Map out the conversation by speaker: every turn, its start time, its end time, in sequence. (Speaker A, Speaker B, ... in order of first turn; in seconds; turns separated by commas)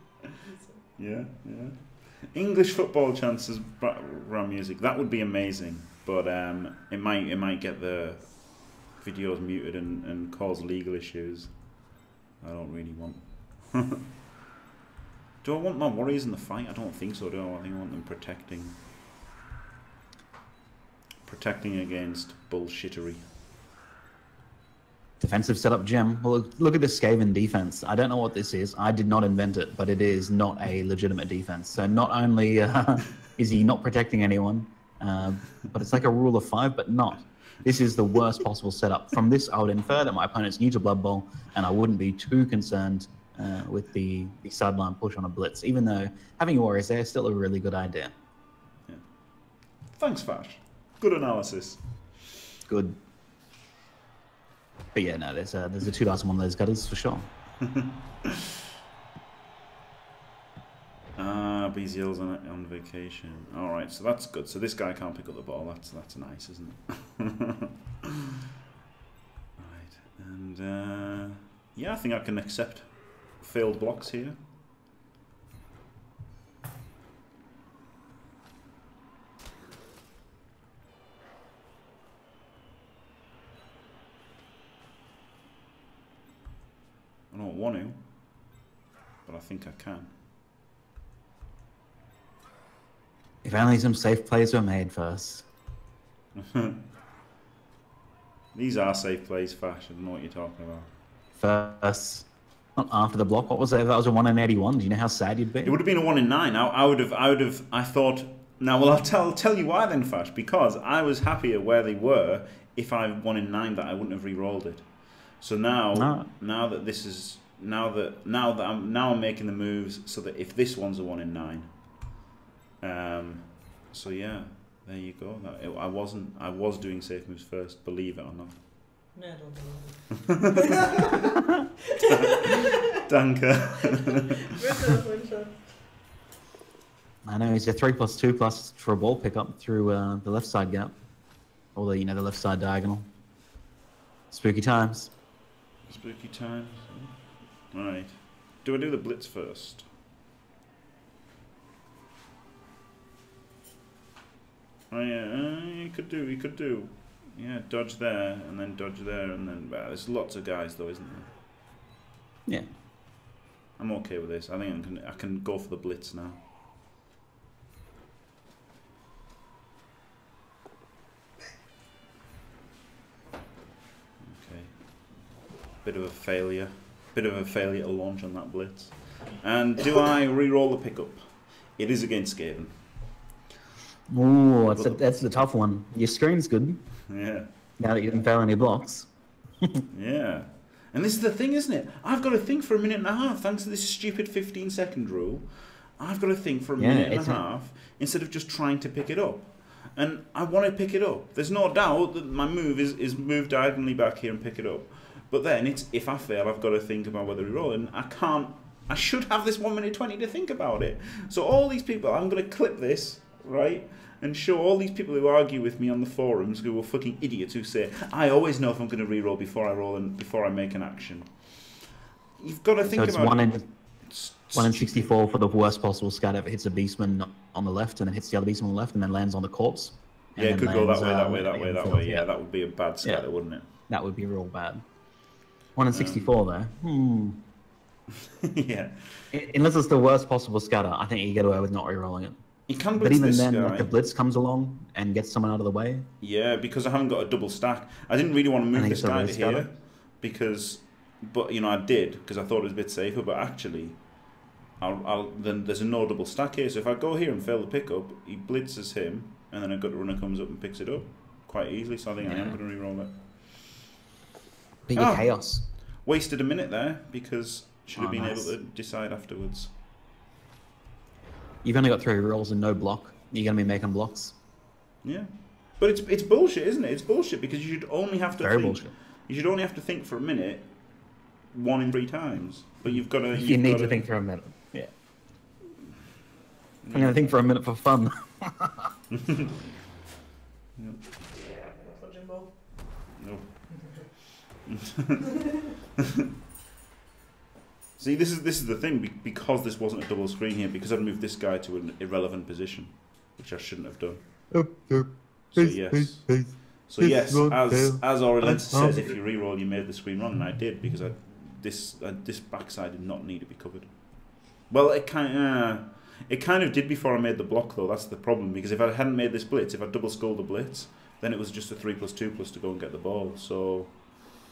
Speaker A: 0.3-0.8, Speaker B: 1.0-11.7, Speaker B: 12.4-14.0, Speaker B: 15.4-18.8, Speaker B: 21.2-23.2, Speaker C: 25.2-48.1, Speaker B: 49.9-51.8, Speaker C: 52.7-53.0, Speaker C: 54.9-57.3, Speaker B: 57.6-58.5, Speaker B: 61.2-68.1, Speaker B: 69.6-74.4, Speaker B: 87.3-88.0, Speaker B: 89.2-90.1, Speaker C: 93.4-95.5, Speaker B: 96.4-96.8, Speaker B: 98.5-100.9, Speaker C: 101.4-105.8, Speaker B: 105.6-122.0, Speaker C: 116.0-116.3, Speaker B: 122.8-128.6, Speaker A: 129.1-131.2, Speaker B: 130.3-131.2, Speaker A: 131.9-132.8, Speaker B: 132.0-134.4, Speaker A: 134.1-135.6, Speaker C: 137.2-140.9, Speaker C: 141.7-143.1, Speaker C: 144.3-145.1, Speaker B: 145.9-149.9, Speaker B: 154.9-161.3, Speaker B: 163.8-166.4, Speaker B: 174.2-175.1, Speaker B: 175.8-182.8, Speaker C: 184.1-186.8, Speaker B: 184.7-185.0, Speaker B: 187.1-187.5, Speaker C: 187.8-189.1, Speaker B: 189.9-221.3, Speaker C: 196.8-197.4, Speaker B: 222.4-225.4, Speaker C: 222.8-223.7, Speaker C: 224.5-232.3, Speaker B: 230.4-233.7, Speaker C: 233.9-234.8, Speaker C: 235.8-237.4, Speaker B: 235.9-236.3, Speaker B: 238.3-239.2, Speaker C: 239.3-242.4, Speaker B: 242.7-243.9, Speaker C: 243.0-246.1, Speaker B: 246.2-254.1, Speaker C: 248.7-249.7, Speaker B: 254.8-263.2, Speaker C: 262.3-262.6, Speaker C: 264.9-265.6, Speaker B: 265.0-265.3, Speaker B: 265.9-269.7, Speaker C: 268.0-268.5, Speaker C: 271.6-274.4, Speaker B: 275.0-280.8, Speaker C: 278.4-278.9, Speaker B: 281.5-284.1, Speaker C: 283.3-284.9, Speaker B: 286.8-287.4, Speaker C: 286.9-288.9, Speaker B: 289.1-289.5, Speaker B: 290.8-291.1, Speaker A: 291.7-292.6, Speaker B: 293.2-293.8, Speaker B: 294.7-295.3, Speaker B: 298.0-304.2, Speaker C: 304.5-309.2, Speaker B: 305.5-323.9